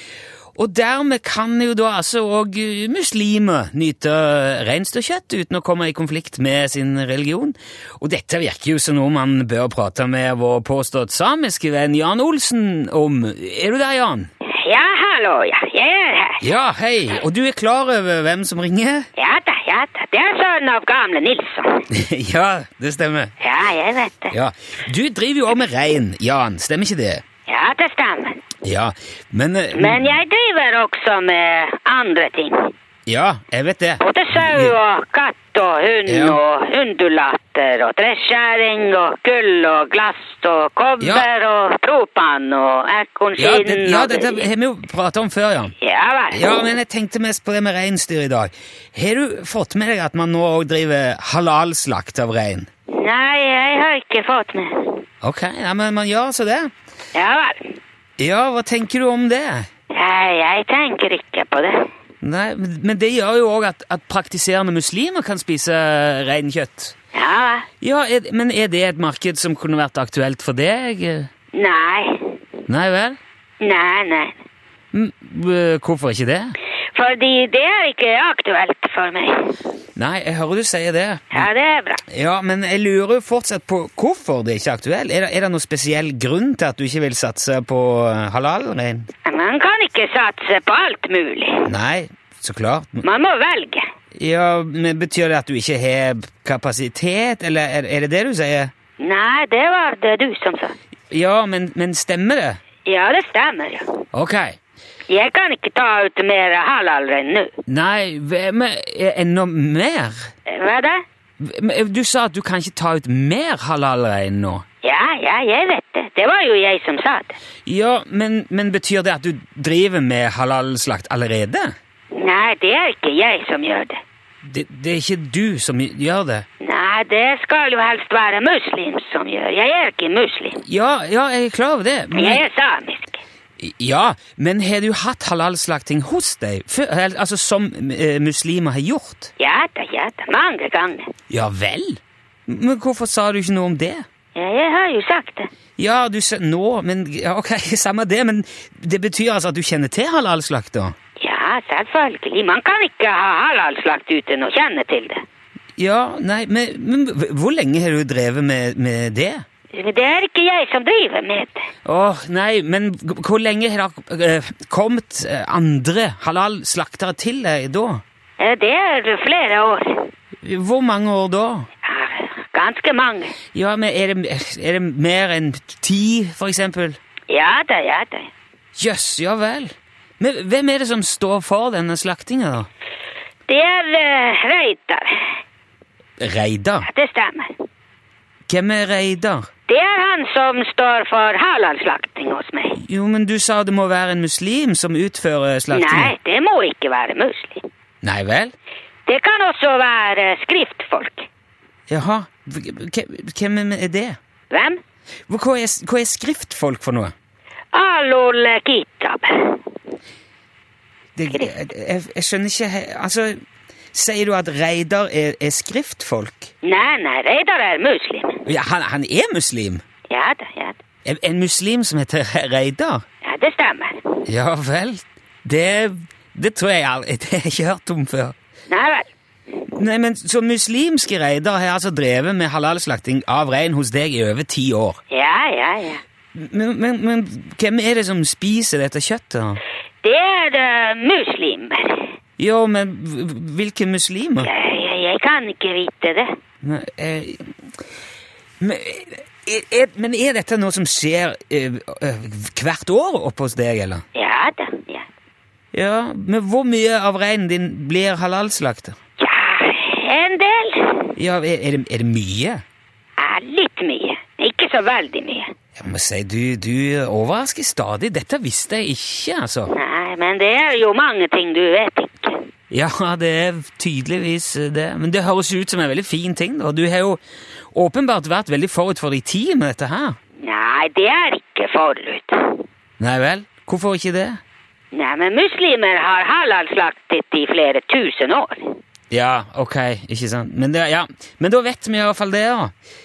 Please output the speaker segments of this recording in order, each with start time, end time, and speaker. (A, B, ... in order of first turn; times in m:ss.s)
0:00.6-0:14.3 A
0:14.4-0:16.4 B
0:16.4-0:19.1 A
0:19.2-0:21.8 B
0:21.9-0:23.3 A
0:23.4-0:24.3 B
0:24.3-0:27.2 A
0:27.5-0:28.4 B
0:28.6-0:30.1 A
0:29.7-0:32.7 B
0:33.1-0:34.7 A
0:34.0-0:44.4 B
0:36.1-0:36.4 A
0:41.0-0:41.3 A
0:43.4-0:45.7 A
0:45.8-0:46.5 B
0:46.3-0:52.7 A
0:52.9-0:55.0 B
0:55.2-0:56.7 A
0:57.1-0:57.8 B
0:58.2-0:59.7 A
0:59.9-1:01.8 B
1:02.2-1:06.9 A
1:07.1-1:07.7 B
1:07.8-1:11.3 A
1:11.5-1:12.3 B
1:12.7-1:13.2 A
1:13.6-1:14.4 B
1:14.9-1:16.5 A
1:16.9-1:19.5 B
1:20.0-1:21.5 A
1:21.3-1:22.0 B
1:22.1-1:29.1 A
1:29.2-1:31.7 B
1:31.6-1:33.0 A
1:33.0-1:33.8 B
1:34.2-1:38.7 A
1:39.0-1:40.7 B
1:41.1-1:42.6 A
1:42.8-1:44.0 B
1:44.1-1:44.6 A
1:45.1-1:47.5 B
1:47.7-1:50.3 A
1:50.4-1:51.0 B
1:51.4-1:54.6 A
1:54.8-1:57.4 B
1:57.6-2:01.7 A
2:02.1-2:04.0 B
2:04.4-2:06.4 A
2:06.6-2:10.6 B
2:10.6-2:12.4 A
2:12.1-2:13.2 B
2:13.6-2:19.3 A
2:19.4-2:21.1 B
2:21.3-2:24.0 A
2:24.3-2:25.5 B
2:25.8-2:30.9 A
2:31.2-2:35.2 B
2:35.8-2:39.4 A
2:39.7-2:41.7 B
2:41.8-2:48.0 A
2:48.4-2:50.1 B
2:50.4-2:51.7 A
2:51.8-2:53.3 B
2:53.5-2:57.0 A
2:57.3-2:58.3 B
2:58.8-3:02.7 A
3:03.5-3:05.2 B
3:06.2-3:06.9 A
3:06.8-3:07.6 B
3:08.5-3:09.5 A
3:09.7-3:12.8 B
3:12.7-3:16.1 A
3:15.7-3:17.6 B
3:18.0-3:18.5 A
3:19.1-3:21.3 B
3:21.9-3:24.2 A
3:24.5-3:24.8 B
3:25.3-3:27.1 A
3:27.7-3:29.6 B
3:31.2-3:33.4 A
3:33.9-3:36.5 A
3:36.6-3:38.4 B
3:38.4-3:39.8 A
3:40.1-3:40.8 B
3:41.0-3:43.0 A
3:43.2-3:44.1 B
3:44.2-3:48.3 A
3:48.7-3:49.1 B
3:49.7-3:55.0 A
3:55.1-3:56.0 B
3:56.3-3:59.6 A
4:00.0-4:02.1 B
4:02.4-4:04.5 A
4:04.4-4:06.3 B
4:06.6-4:07.5 A
4:08.6-4:14.0 A
4:14.1-4:15.0 B
4:15.7-4:19.0 A
4:19.2-4:21.1 B
4:21.2-4:22.6 A
4:23.2-4:25.5 B
4:25.8-4:29.7 A
4:29.7-4:32.4 B
4:32.7-4:37.2 A
4:37.7-4:40.2 A
4:40.4-4:42.6 B
4:43.0-4:44.4 A
4:44.9-4:48.8 B
4:49.1-4:52.7 A